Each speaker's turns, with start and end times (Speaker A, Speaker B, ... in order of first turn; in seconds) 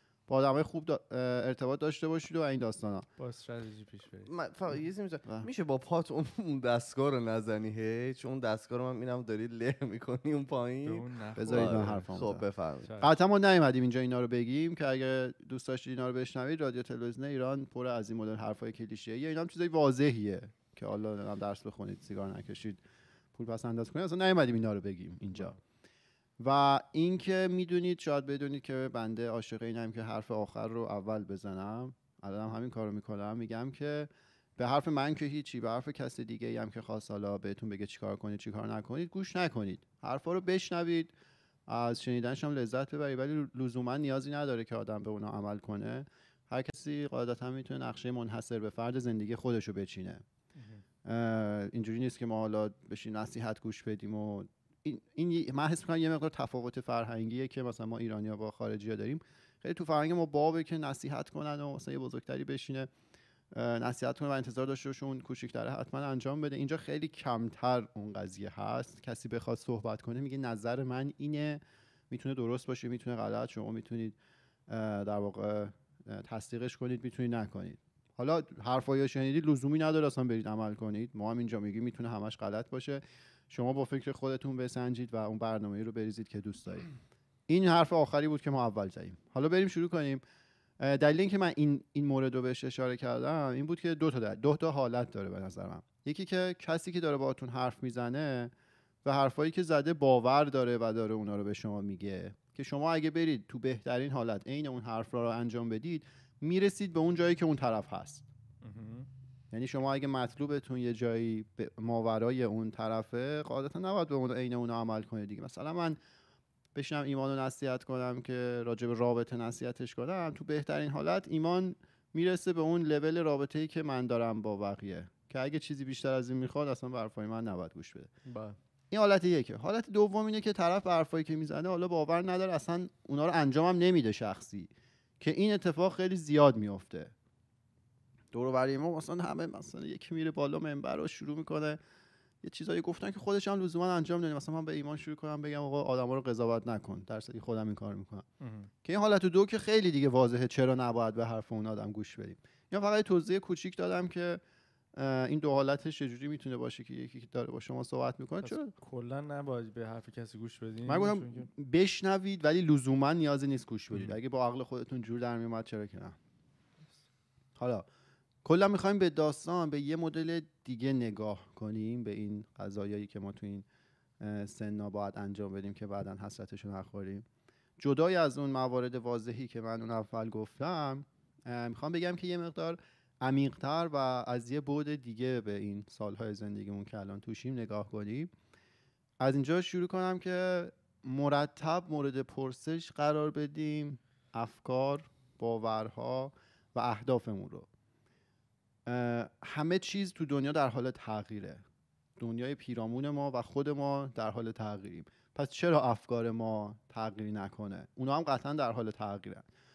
Speaker A: 0.3-3.1, 11.4-12.4, 13.0-22.8, 23.3-25.6, 26.4-41.1, 41.7-50.2, 51.0-62.9, 63.5-74.2, 74.7-86.9, 87.5-90.2, 90.8-98.5, 99.0-108.2, 109.5-116.0, 116.7-128.1, 128.9-137.1, 138.3-141.8, 142.4-148.2, 148.8-154.4, 154.9-158.7, 160.8-166.2, 167.6-167.8, 168.4-173.7, 174.2-177.2, 177.8-188.3, 189.2-197.7, 198.8-201.6, 202.2-209.4
Speaker B: 3.2-4.3, 10.8-12.1, 12.8-13.1, 50.5-50.8, 108.6-109.1, 148.4-148.7, 158.4-161.5
Speaker C: 4.2-12.9, 128.3-128.5